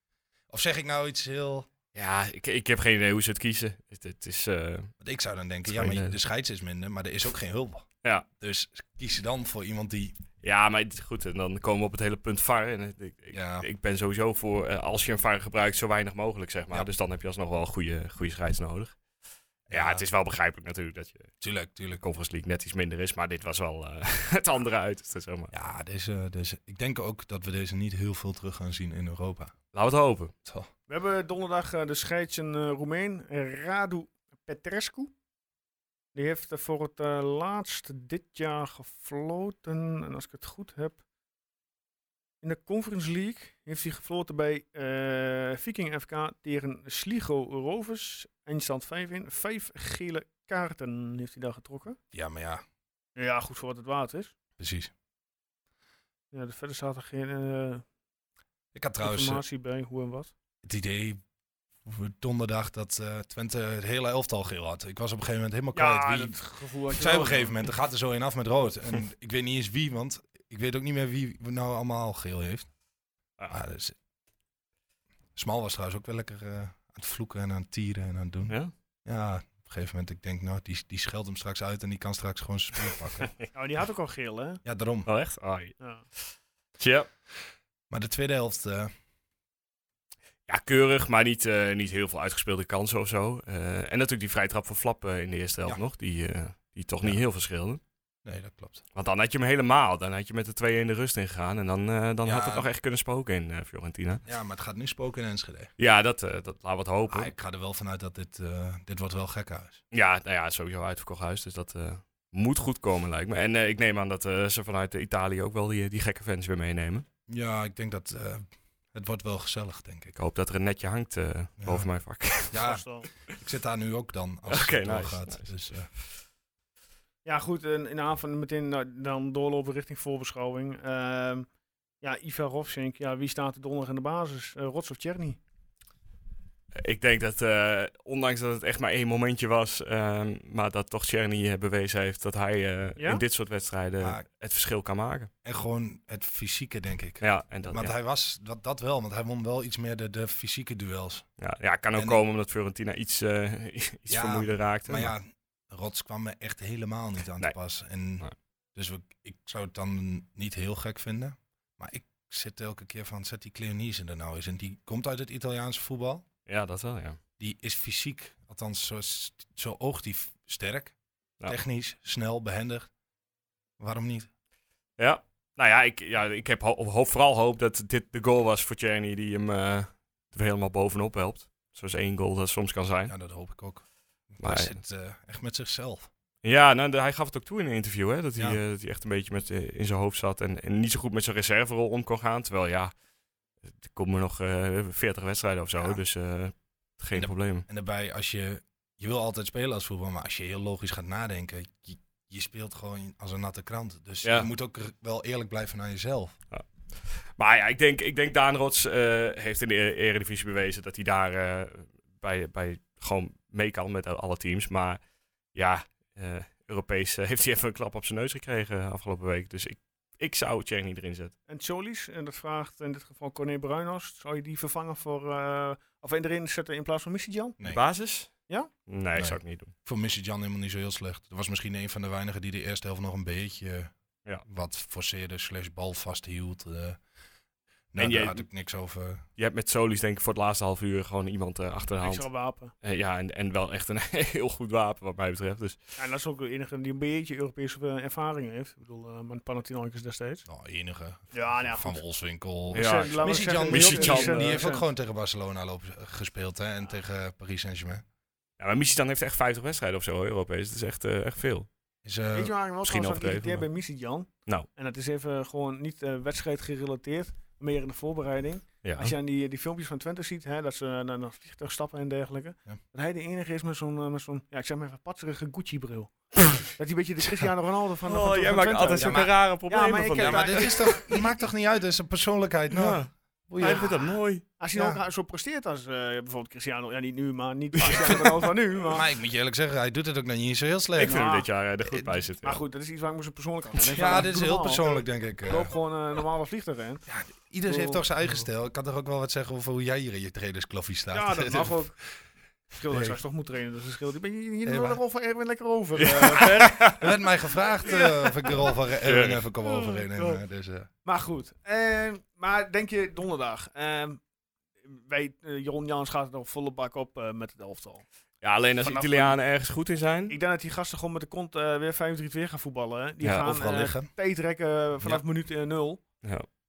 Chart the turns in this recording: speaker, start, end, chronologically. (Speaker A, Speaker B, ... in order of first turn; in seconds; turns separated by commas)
Speaker A: 0.5-1.7, Speaker B: 1.9-4.9, Speaker A: 5.0-7.9, Speaker B: 5.7-6.2, Speaker A: 8.4-10.2, Speaker B: 10.4-19.0, Speaker A: 13.3-13.7, Speaker B: 19.7-21.3, Speaker A: 19.7-20.0, Speaker A: 21.4-22.0, Speaker B: 22.0-25.5, Speaker A: 25.5-29.6, Speaker B: 29.7-30.3, Speaker A: 30.4-30.7, Speaker C: 30.9-35.1, Speaker C: 36.1-41.0, Speaker C: 42.4-52.0, Speaker A: 52.1-52.6, Speaker C: 53.2-54.3, Speaker A: 54.6-54.9, Speaker C: 56.3-57.8, Speaker A: 58.7-59.4, Speaker C: 59.0-60.3, Speaker A: 60.6-61.2, Speaker A: 61.9-66.4, Speaker C: 65.7-67.6, Speaker A: 66.9-72.7, Speaker A: 73.5-74.0, Speaker A: 75.4-83.3, Speaker C: 83.5-84.6, Speaker A: 84.7-85.1, Speaker B: 85.1-87.1, Speaker A: 87.9-88.9, Speaker B: 90.5-97.8, Speaker A: 98.2-98.8, Speaker B: 99.0-104.2, Speaker A: 102.2-102.7, Speaker A: 104.3-105.7, Speaker B: 105.8-107.3, Speaker A: 107.1-109.8, Speaker B: 109.9-117.1, Speaker A: 117.3-120.2, Speaker B: 120.2-122.7, Speaker A: 121.6-121.9, Speaker A: 122.5-125.9, Speaker C: 122.6-123.1, Speaker B: 124.5-125.5, Speaker C: 127.2-131.5, Speaker C: 132.0-135.4, Speaker B: 136.8-145.3, Speaker C: 143.0-143.2, Speaker A: 144.0-144.2, Speaker A: 145.4-151.3, Speaker B: 147.2-147.9, Speaker B: 151.4-155.1, Speaker A: 154.1-166.3, Speaker B: 166.5-167.2, Speaker A: 167.4-170.9, Speaker A: 171.5-172.9, Speaker A: 173.8-174.3, Speaker B: 175.0-183.1, Speaker A: 183.1-186.1, Speaker B: 184.4-184.7, Speaker B: 186.4-192.9, Speaker B: 193.7-197.7, Speaker A: 197.1-206.4, Speaker B: 206.5-215.0, Speaker B: 215.5-221.3, Speaker C: 221.5-227.6, Speaker B: 227.6-228.3, Speaker B: 228.9-229.7, Speaker A: 229.2-233.9, Speaker A: 234.5-237.0, Speaker A: 237.9-239.2, Speaker B: 238.0-238.4, Speaker B: 239.4-242.3, Speaker C: 242.0-242.7, Speaker B: 242.8-245.8, Speaker C: 246.0-250.4, Speaker A: 250.5-258.0, Speaker C: 251.3-252.0, Speaker C: 252.7-254.8, Speaker B: 252.7-254.6, Speaker B: 258.6-261.7, Speaker A: 262.0-262.5, Speaker C: 262.3-281.1, Speaker B: 262.8-263.7, Speaker B: 268.8-269.1, Speaker B: 278.1-281.0, Speaker A: 278.9-279.4, Speaker A: 280.2-283.9, Speaker B: 282.7-284.4, Speaker C: 283.6-284.1, Speaker C: 284.6-289.1, Speaker A: 284.7-285.0, Speaker B: 287.8-288.1, Speaker A: 288.9-291.2, Speaker B: 291.0-292.6, Speaker C: 291.0-291.5, Speaker A: 291.9-292.1, Speaker C: 292.4-294.9, Speaker A: 293.9-295.7, Speaker C: 295.5-297.1, Speaker A: 297.1-302.0, Speaker C: 297.7-298.0, Speaker C: 301.1-302.0, Speaker C: 302.7-307.1, Speaker A: 302.9-303.2, Speaker A: 304.7-305.0, Speaker B: 306.0-307.1, Speaker A: 306.7-310.9, Speaker C: 307.8-308.8, Speaker B: 309.0-309.4, Speaker C: 309.6-310.4, Speaker C: 311.1-314.2, Speaker C: 314.9-318.1, Speaker B: 318.4-320.4, Speaker C: 318.8-319.4, Speaker C: 320.3-326.0, Speaker B: 323.2-323.5, Speaker A: 323.4-324.1